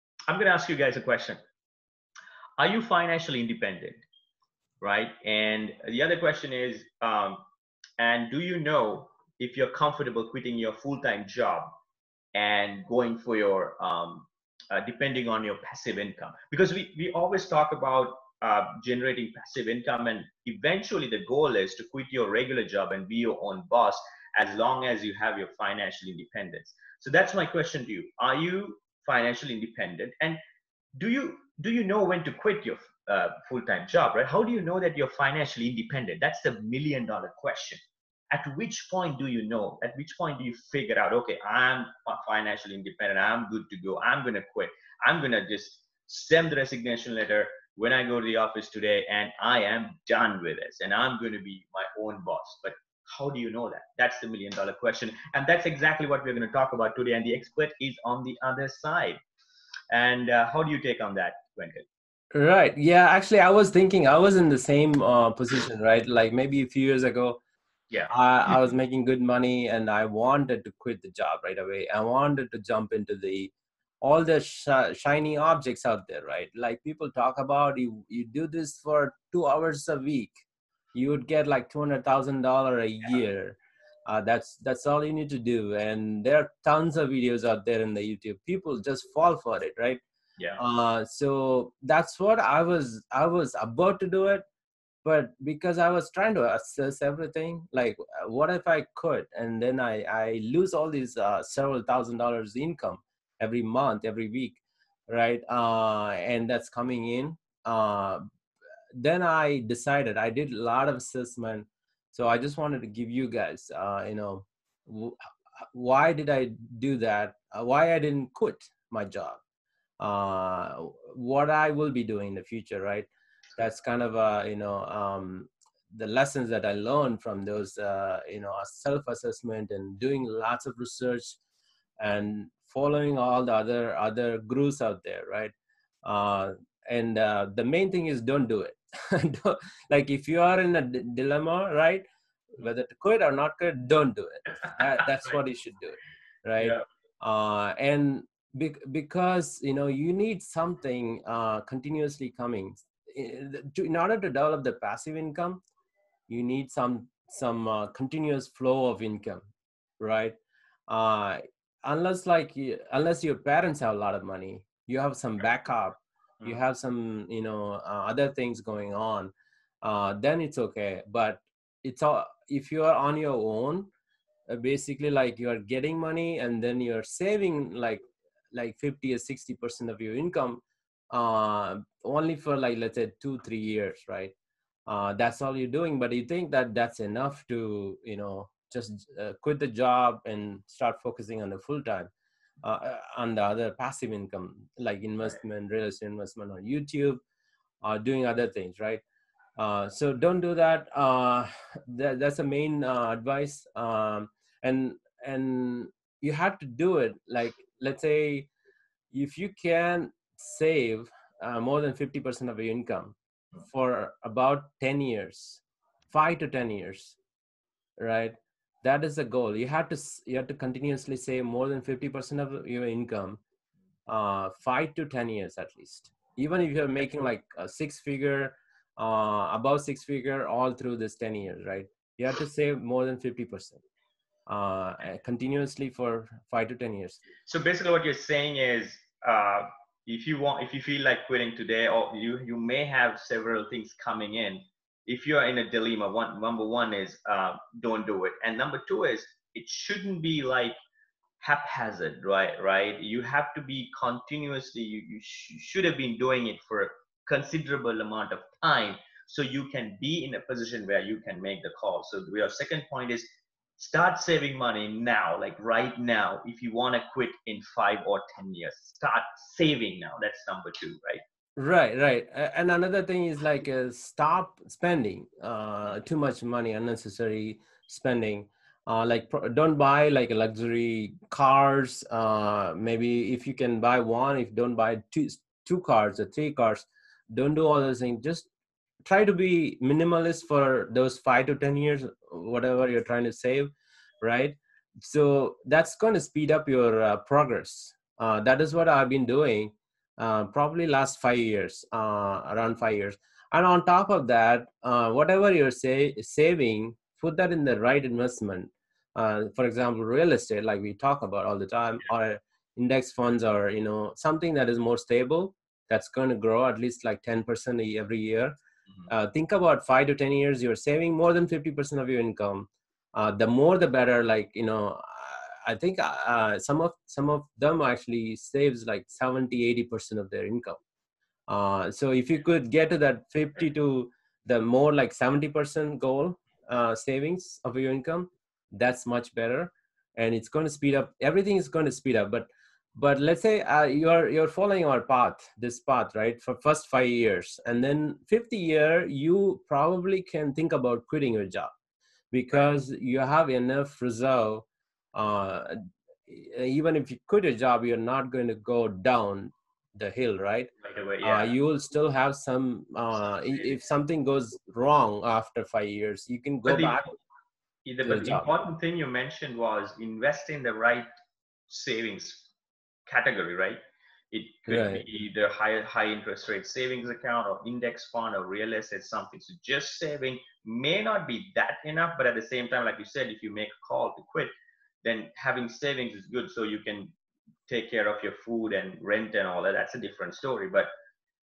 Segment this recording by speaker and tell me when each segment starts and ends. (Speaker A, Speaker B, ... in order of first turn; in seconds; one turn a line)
Speaker A: 0.3-1.4
Speaker A: 2.6-4.0
Speaker A: 4.8-7.4
Speaker A: 8.0-11.7
Speaker A: 12.3-30.4
Speaker A: 31.0-59.2
Speaker A: 59.9-61.9
Speaker B: 62.3-67.4
Speaker A: 67.9-68.7
Speaker B: 68.1-80.4
Speaker B: 80.9-90.0
Speaker B: 90.6-94.4
Speaker B: 95.0-108.2
Speaker B: 109.0-115.2
Speaker B: 115.7-119.4
Speaker B: 120.0-131.4
Speaker B: 132.0-135.5
Speaker B: 136.0-155.6
Speaker A: 146.6-146.8
Speaker B: 156.3-159.4
Speaker B: 160.0-169.3
Speaker B: 169.8-173.9
Speaker B: 174.5-184.3
Speaker B: 184.9-192.1
Speaker B: 192.6-197.2
Speaker B: 197.8-199.0
Speaker B: 199.6-208.5
Speaker B: 209.1-215.6
Speaker B: 216.1-217.2
Speaker B: 218.0-223.4
Speaker B: 224.1-233.8
Speaker B: 234.5-237.2
Speaker A: 237.5-250.8
Speaker A: 251.4-271.2
Speaker B: 271.6-288.5
Speaker B: 289.1-318.6
Speaker B: 319.1-330.8
Speaker B: 331.5-351.7
Speaker B: 352.3-360.7
Speaker A: 360.8-361.5
Speaker B: 361.2-367.1
Speaker A: 366.7-367.0
Speaker A: 367.9-371.1
Speaker B: 368.1-368.5
Speaker A: 371.7-372.5
Speaker A: 373.1-373.8
Speaker A: 374.3-384.5
Speaker B: 374.7-375.1
Speaker A: 385.0-387.1
Speaker A: 387.7-390.9